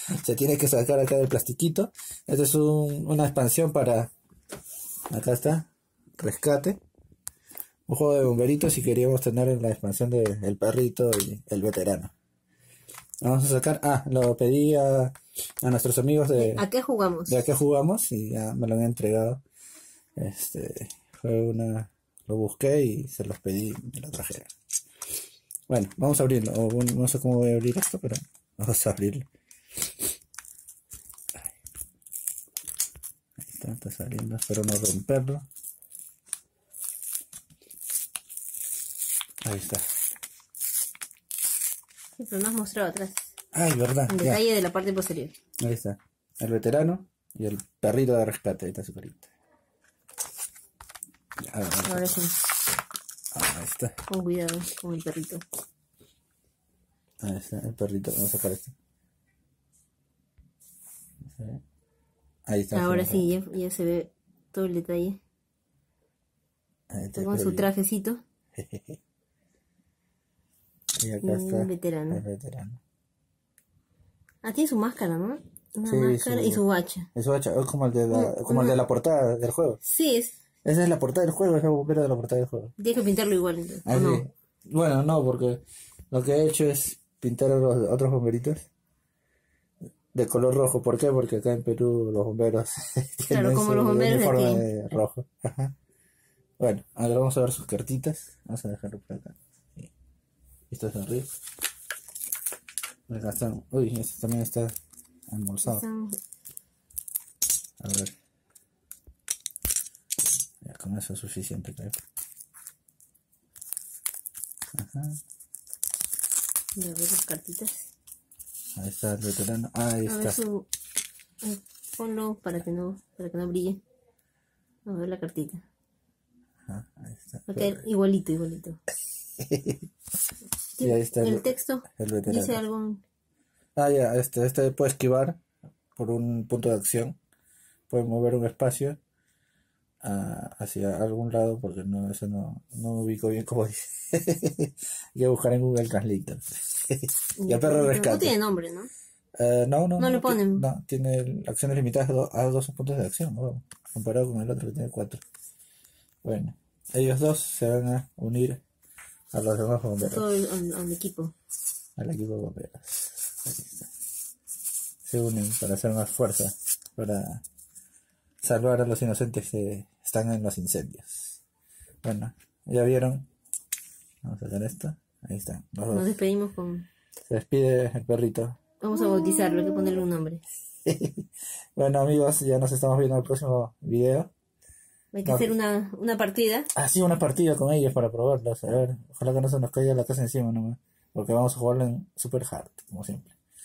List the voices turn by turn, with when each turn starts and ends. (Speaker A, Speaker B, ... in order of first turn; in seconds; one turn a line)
Speaker A: 0.2-4.1
Speaker A: 5.1-6.8
Speaker A: 7.9-12.1
Speaker A: 13.2-16.6
Speaker B: 16.4-17.4
Speaker A: 17.3-19.4
Speaker A: 20.2-24.5
Speaker A: 25.7-29.3
Speaker A: 33.4-35.5
Speaker A: 39.4-39.9
Speaker B: 42.2-43.3
Speaker A: 43.5-44.4
Speaker B: 44.1-45.4
Speaker A: 45.6-49.3
Speaker A: 51.4-52.2
Speaker B: 51.9-52.4
Speaker A: 53.3-54.0
Speaker B: 54.1-55.4
Speaker A: 57.2-58.7
Speaker A: 61.2-61.6
Speaker A: 62.5-63.3
Speaker B: 62.7-65.2
Speaker A: 66.9-67.7
Speaker B: 67.2-68.2
Speaker A: 68.6-69.0
Speaker A: 71.0-72.8
Speaker B: 71.2-72.2
Speaker B: 74.4-77.1
Speaker A: 75.8-76.6
Speaker A: 77.1-79.8
Speaker B: 78.1-78.8
Speaker B: 79.8-80.4
Speaker A: 80.6-82.8
Speaker B: 82.8-84.2
Speaker A: 83.9-88.7
Speaker A: 90.1-95.7
Speaker B: 93.3-94.7
Speaker A: 96.6-99.9
Speaker A: 100.7-101.3
Speaker A: 103.1-104.7
Speaker A: 105.3-105.8
Speaker B: 105.6-106.2
Speaker A: 107.8-108.1
Speaker A: 110.6-112.0
Speaker A: 114.7-115.2
Speaker B: 116.8-117.9
Speaker A: 118.8-120.4
Speaker B: 120.1-120.7
Speaker B: 121.4-123.8
Speaker B: 124.9-125.6
Speaker A: 126.7-127.8
Speaker B: 127.5-128.8
Speaker A: 129.4-129.8
Speaker B: 130.8-133.0
Speaker A: 130.8-132.6
Speaker A: 133.8-135.4
Speaker A: 136.0-137.2
Speaker A: 137.9-139.0
Speaker A: 140.0-148.4
Speaker B: 147.4-148.9
Speaker A: 149.4-155.2
Speaker B: 150.0-150.7
Speaker A: 156.2-158.6
Speaker A: 159.3-160.2
Speaker B: 160.0-161.3
Speaker A: 162.0-163.9
Speaker A: 165.1-167.4
Speaker A: 168.4-171.4
Speaker A: 172.0-173.3
Speaker A: 174.2-176.2
Speaker B: 175.9-176.9
Speaker A: 177.3-178.6
Speaker B: 178.8-180.4
Speaker A: 180.9-181.2
Speaker A: 181.8-184.3
Speaker B: 185.1-186.7
Speaker A: 185.3-185.5
Speaker A: 186.8-193.3